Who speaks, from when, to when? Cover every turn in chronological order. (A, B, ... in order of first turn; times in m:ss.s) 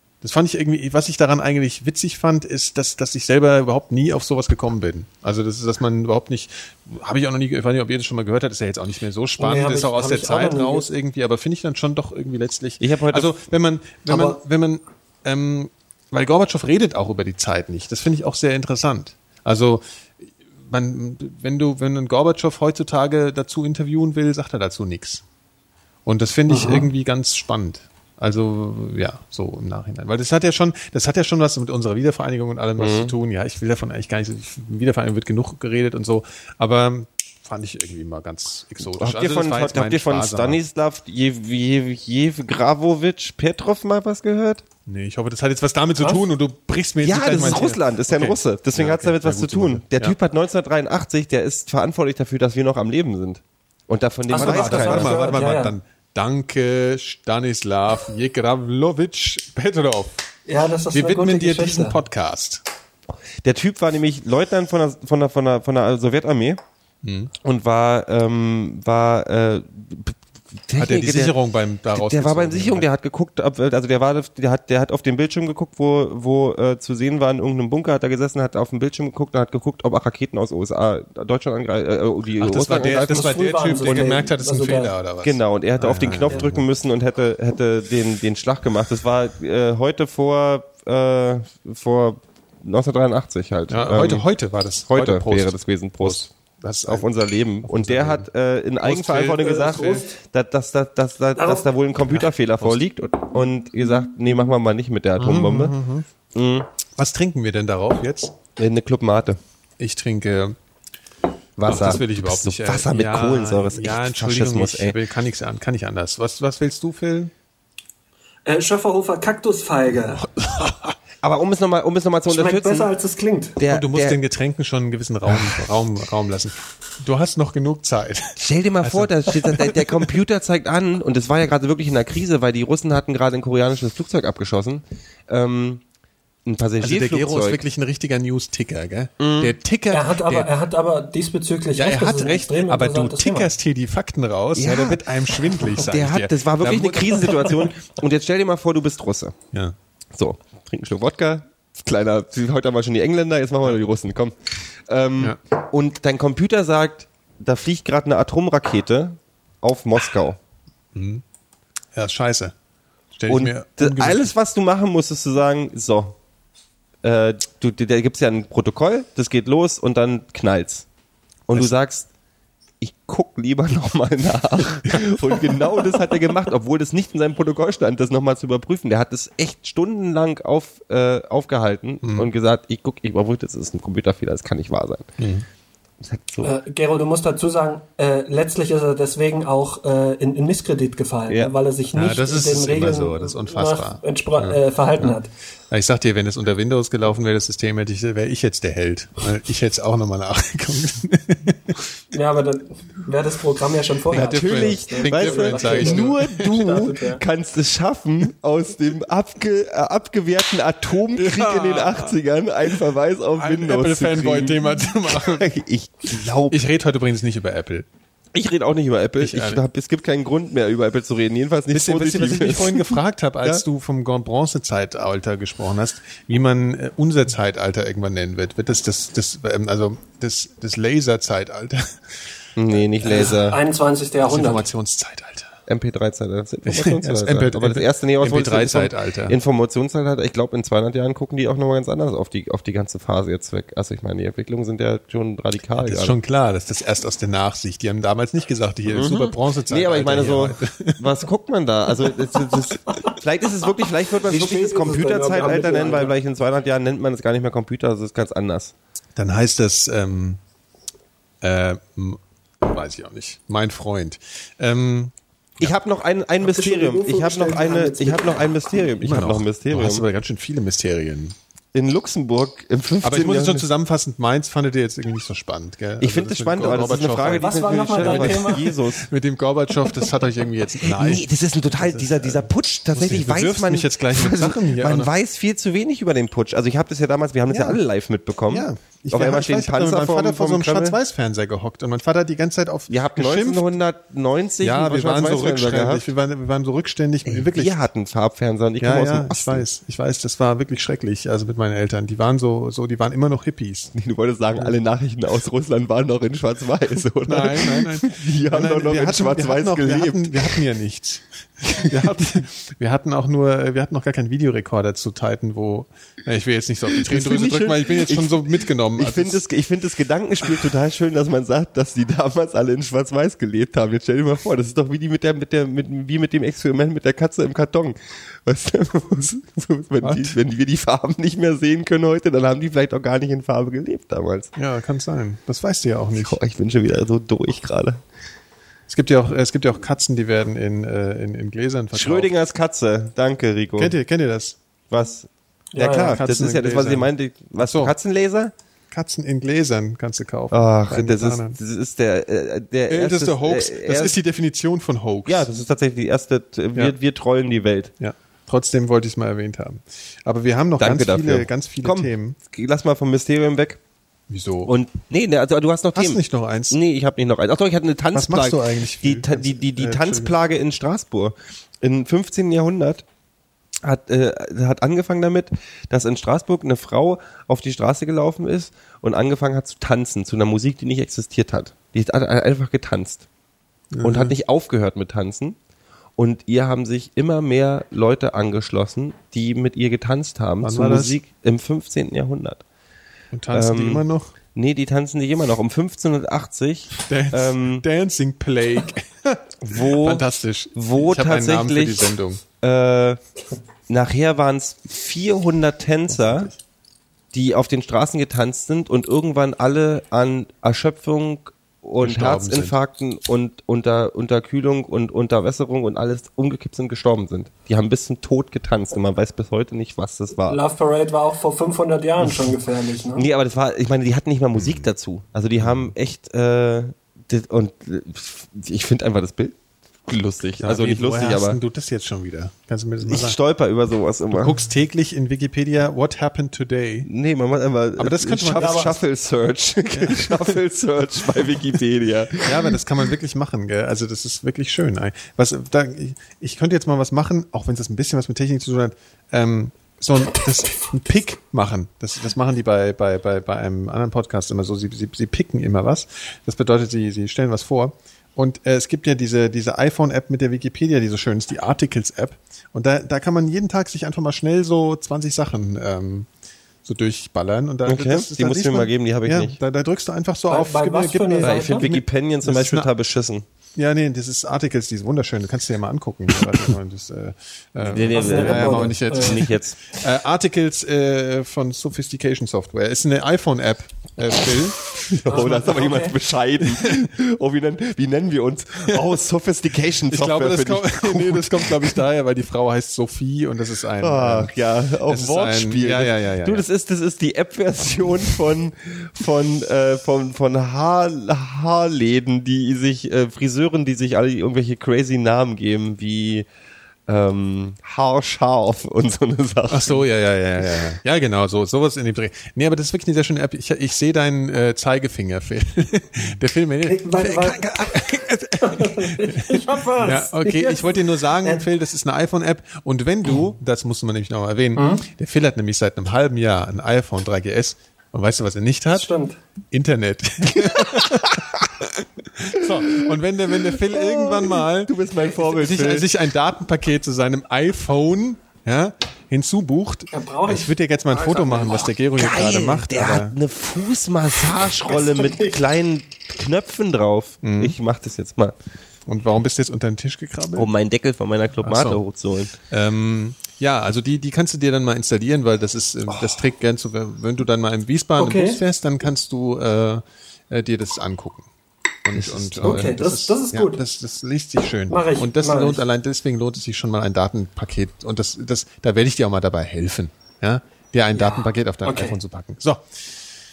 0:00.2-0:25.2 A
0:09.4-0:10.9 B
0:12.8-0:13.3 C
0:14.1-0:14.4 B
0:26.0-0:40.6 A
0:26.5-0:26.9 B
0:32.8-0:33.1 C
0:39.0-0:44.6 C
0:44.9-0:50.2 A
0:47.0-0:55.4 C
0:54.3-0:55.8 B
0:54.3-1:00.2 A
1:00.5-1:02.0 B
1:00.9-1:02.6 A
1:03.4-1:06.6 C
1:07.0-1:07.3 A
1:07.4-1:11.4 C
1:10.8-1:12.8 A
1:11.9-1:24.2 C
1:22.4-1:26.6 A
1:22.9-1:24.9 B
1:25.2-1:34.2 C
1:33.7-1:37.1 A
1:34.9-1:36.3 C
1:36.9-1:45.7 C
1:37.6-1:38.3 A
1:38.8-1:40.1 A
1:39.6-1:40.1 B
1:41.4-1:41.7 B
1:42.1-1:42.8 A
1:45.2-1:46.1 A
1:46.3-1:46.7 C
1:47.0-1:48.4 A
1:48.6-1:49.4 C
1:49.8-1:50.6 A
1:51.6-1:55.0 C
1:51.6-1:57.3 A
1:58.4-2:00.3 B
2:00.2-2:01.0 A
2:01.2-2:02.9 C
2:02.3-2:03.6 B
2:03.6-2:04.2 C
2:03.7-2:10.2 A
2:05.3-2:05.6 C
2:08.4-2:15.8 C
2:16.4-2:17.6 C
2:16.8-2:20.5 A
2:19.2-2:19.5 C
2:19.9-2:23.5 B
2:21.7-2:27.6 A
2:24.6-2:29.4 C
2:30.2-2:40.4 C
2:40.9-2:41.2 A
2:41.9-2:42.5 A
2:43.2-2:44.3 A
2:43.3-2:46.2 C
2:47.0-2:50.8 C
2:51.5-2:52.1 C
2:52.8-3:05.1 C
3:02.0-3:02.3 A
3:05.2-3:05.4 A
3:06.0-3:06.5 C
3:06.4-3:15.3 B
3:11.9-3:15.2 A
3:12.7-3:13.3 C
3:15.7-3:21.8 A
3:22.1-3:27.2 B
3:24.1-3:26.5 A
3:24.1-3:36.6 C
3:31.1-3:32.2 A
3:33.4-3:35.4 A
3:36.5-3:37.9 A
3:38.3-3:43.6 C
3:39.2-3:39.6 A
3:41.7-3:52.2 A
3:52.6-3:53.6 C
3:53.0-3:53.6 A
3:53.1-3:54.6 B
3:54.3-3:55.5 A
3:55.7-4:06.2 C
3:56.6-3:59.4 A
4:05.8-4:11.0 A
4:08.9-4:18.7 C
4:14.2-4:16.2 B
4:19.2-4:20.4 A
4:21.4-4:25.7 A
4:25.6-4:30.0 C
4:26.4-4:28.6 B
4:29.0-4:31.4 A
4:31.7-4:33.6 C
4:33.0-4:41.2 A
4:36.0-4:39.1 C
4:37.3-4:38.8 B
4:40.8-4:51.0 C
4:41.8-4:45.1 A
4:47.5-4:47.8 A
4:48.5-4:53.7 A
4:52.9-4:56.1 C
4:54.6-4:57.8 A
4:57.3-4:59.6 C
4:58.8-5:03.9 A
5:03.9-5:10.6 C
5:07.3-5:19.4 A
5:16.9-5:34.5 C
5:30.0-5:30.4 A
5:34.6-5:36.4 A
5:36.2-5:38.0 C
5:38.9-5:42.3 A
5:41.9-5:43.9 C
5:43.8-5:44.6 A
5:44.9-5:48.5 C
5:45.7-5:46.2 B
5:46.0-5:47.9 A
5:48.9-5:51.6 A
5:50.5-5:54.1 C
5:52.9-5:55.5 A
5:55.3-5:57.9 C
5:58.0-6:02.4 A
6:00.8-6:03.8 C
6:04.3-6:04.7 A
6:04.6-6:13.0 C
6:05.9-6:06.8 A
6:08.1-6:10.3 A
6:13.8-6:23.2 C
6:23.9-6:24.4 A
6:24.0-6:25.6 C
6:26.2-6:32.6 C
6:30.6-6:31.2 A
6:33.3-6:34.3 A
6:33.5-6:37.8 C
6:37.1-6:42.4 A
6:39.6-6:40.2 C
6:40.8-6:42.1 C
6:42.6-6:43.2 C
6:43.9-6:46.5 C
6:46.1-6:46.6 A
6:47.3-7:00.6 C
6:52.0-6:52.7 A
7:00.5-7:03.2 B
7:03.2-7:09.6 C
7:10.1-7:11.6 C
7:10.6-7:13.4 A
7:13.1-7:14.6 C
7:14.3-7:17.1 A
7:17.1-7:22.8 C
7:18.0-7:19.0 A
7:18.6-7:18.9 B
7:19.9-7:20.6 A
7:22.4-7:46.3 A
7:46.8-7:52.9 A
7:47.8-7:49.6 C
7:50.5-7:51.9 B
7:51.4-7:53.4 C
7:53.8-8:06.0 A
7:57.8-8:00.0 C
7:58.0-7:59.4 B
8:04.8-8:12.0 C
8:05.3-8:06.2 B
8:06.6-8:07.1 A
8:10.1-8:14.5 A
8:14.0-8:26.4 C
8:15.1-8:16.6 A
8:27.1-8:30.0 C
8:29.7-8:49.1 A
8:36.8-8:37.9 B
8:38.6-8:41.6 B
8:44.8-8:45.1 B
8:48.9-8:49.4 B
8:49.7-9:03.4 A
8:50.6-8:51.7 C
8:52.6-8:56.1 C
9:00.1-9:01.9 B
9:02.2-9:08.6 C
9:04.9-9:05.5 B
9:07.4-9:07.8 A
9:09.1-9:10.7 A
9:10.6-9:12.5 C
9:11.6-9:12.0 A
9:12.7-9:21.5 A
9:18.2-9:18.6 B
9:22.0-9:32.9 A
9:22.6-9:23.8 B
9:24.9-9:25.8 B
9:31.1-9:32.2 B